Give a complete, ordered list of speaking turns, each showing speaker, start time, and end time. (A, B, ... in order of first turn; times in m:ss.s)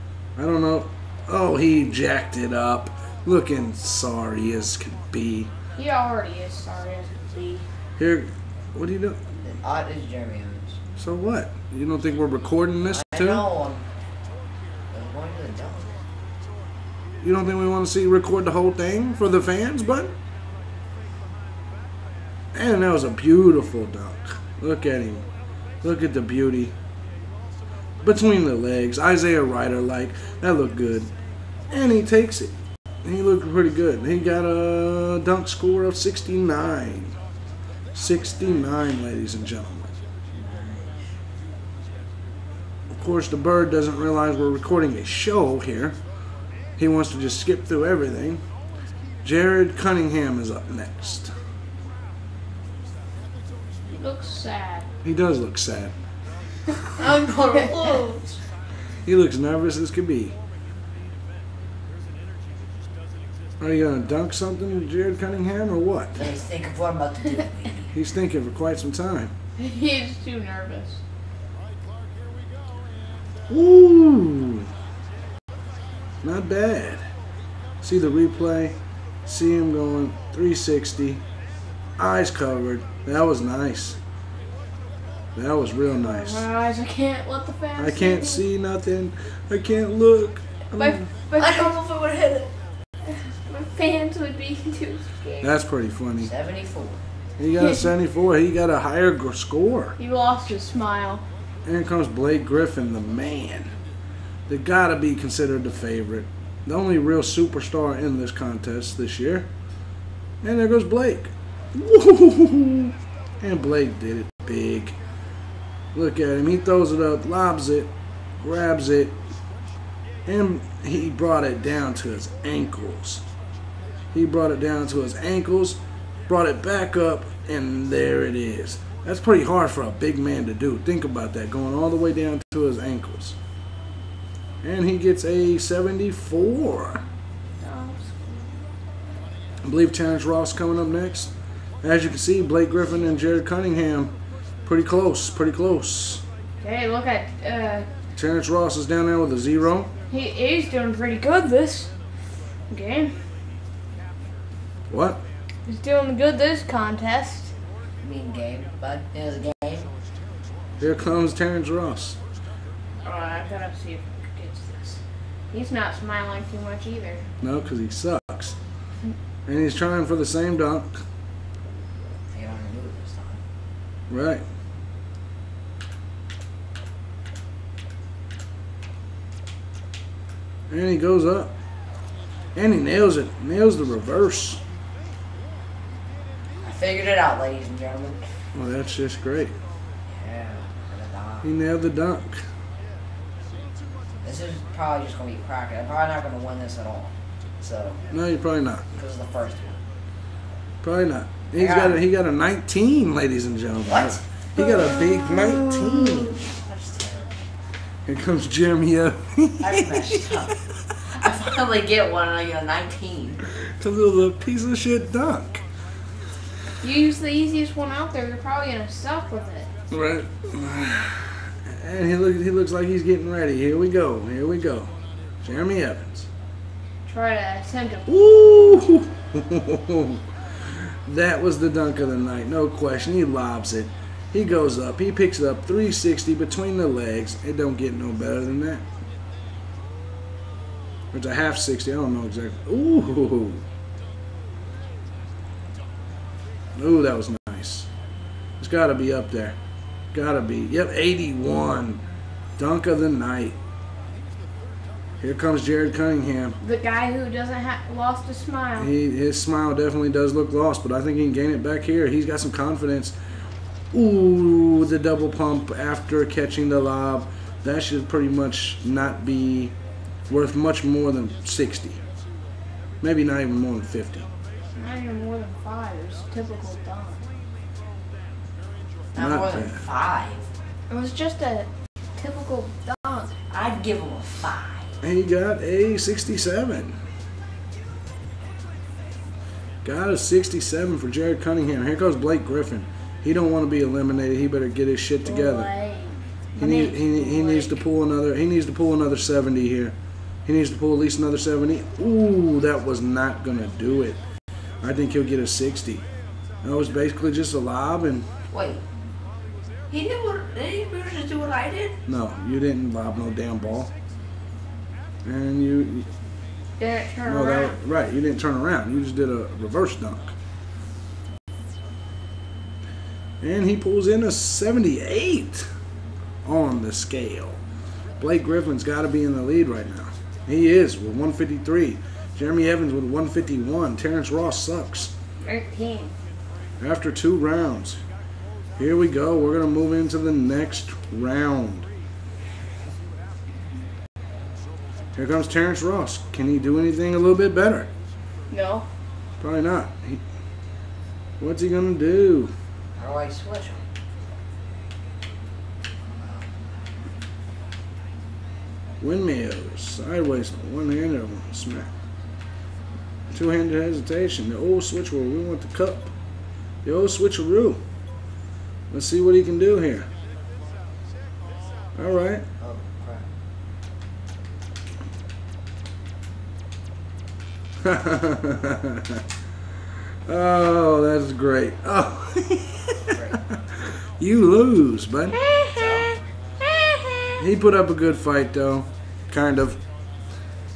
0:00.4-0:05.5 A
0:05.8-0:07.6 B
0:08.0-0:09.2 A
0:09.4-0:10.8 C
0:11.0-0:13.5 A
0:12.9-0:13.9 C
0:14.9-0:16.0 C
0:17.2-0:20.1 A
0:22.5-0:25.3 A
0:25.8-0:26.7 A
0:28.0-0:31.1 A
0:31.7-0:37.2 A
0:37.9-0:39.9 A
0:40.3-0:41.1 C
0:42.9-0:46.0 A
0:46.8-0:48.4 A
0:49.2-0:51.3 A
0:53.9-0:54.9 B
0:55.0-0:56.0 A
0:56.8-0:58.2 B
0:57.0-0:58.4 C
0:59.0-1:00.4 A
1:03.6-1:06.3 A
1:06.2-1:07.9 C
1:07.9-1:09.3 A
1:09.6-1:11.0 B
1:13.5-1:14.7 A
1:16.2-1:17.1 A
1:17.8-1:21.2 A
1:22.0-1:24.0 A
1:25.3-1:26.4 A
1:25.9-1:28.4 B
1:27.8-1:31.1 A
1:30.8-1:31.8 B
1:31.4-1:32.5 C
1:33.1-1:35.5 B
1:35.4-1:36.3 A
1:36.2-1:37.1 C
1:37.4-1:40.0 A
1:40.0-1:41.2 B
1:41.6-1:43.7 A
1:44.5-1:49.5 A
1:50.4-1:55.0 A
1:55.9-1:59.2 A
2:00.2-2:03.2 A
2:04.1-2:13.4 A
2:14.6-2:17.0 A
2:17.6-2:18.5 B
2:19.6-2:21.3 A
2:21.8-2:24.1 A
2:24.6-2:26.2 A
2:26.6-2:27.9 B
2:28.2-2:29.9 A
2:30.1-2:31.9 B
2:32.7-2:33.2 B
2:34.9-2:35.2 A
2:35.6-2:37.5 B
2:38.0-2:39.9 C
2:40.8-2:42.2 A
2:43.0-2:45.0 B
2:45.5-2:47.2 B
2:47.4-2:48.6 A
2:49.4-2:51.0 A
2:52.3-2:53.4 C
2:54.1-2:54.4 A
3:00.7-3:01.6 A
3:02.6-3:04.6 A
3:06.6-3:08.2 C
3:08.5-3:09.6 A
3:10.0-3:11.5 C
3:11.4-3:12.4 A
3:14.2-3:18.0 C
3:18.1-3:18.9 A
3:19.0-3:19.8 C
3:20.8-3:26.4 A
3:21.5-3:22.0 C
3:23.9-3:27.4 C
3:28.0-3:30.9 A
3:29.6-3:30.5 C
3:31.1-3:33.4 C
3:33.5-3:35.6 A
3:36.8-3:39.7 B
3:39.9-3:46.3 A
3:47.1-3:48.8 B
3:48.1-3:58.8 A
4:01.1-4:03.6 A
4:06.8-4:07.9 A
4:08.6-4:09.6 A
4:10.1-4:12.0 A
4:12.6-4:13.6 A
4:15.2-4:16.6 A
4:16.6-4:18.9 B
4:18.8-4:23.2 A
4:23.9-4:29.7 A
4:30.3-4:32.0 A
4:33.0-4:34.3 A
4:34.7-4:37.2 B
4:39.1-4:40.5 C
4:39.2-4:39.8 A
4:40.9-4:43.4 B
4:43.5-4:45.0 C
4:45.0-4:47.0 A
4:49.8-4:55.7 A
4:55.2-4:57.7 B
4:56.6-5:04.2 A
5:04.8-5:06.0 A
5:06.6-5:08.3 A
5:08.5-5:08.8 C
5:09.9-5:12.0 C
5:12.0-5:13.9 A
5:15.2-5:16.1 A
5:16.8-5:17.8 B
5:17.2-5:20.4 A
5:23.4-5:25.7 A
5:26.4-5:27.6 A
5:28.2-5:35.1 A
5:35.4-5:36.1 B
5:36.8-5:38.0 A
5:38.8-5:41.9 A
5:45.2-5:47.9 A
5:48.5-5:48.9 B
5:49.4-5:50.2 A
5:51.4-5:52.5 A
5:53.0-5:53.8 C
5:56.2-5:56.5 C
5:59.0-6:01.9 A
6:03.3-6:06.1 A
6:06.8-6:07.8 A
6:08.9-6:10.1 A
6:12.0-6:12.4 A
6:12.6-6:13.3 C
6:17.8-6:19.2 A
6:20.2-6:25.4 A
6:23.1-6:23.4 C
6:25.4-6:27.4 B
6:25.7-6:26.1 C
6:27.4-6:29.8 A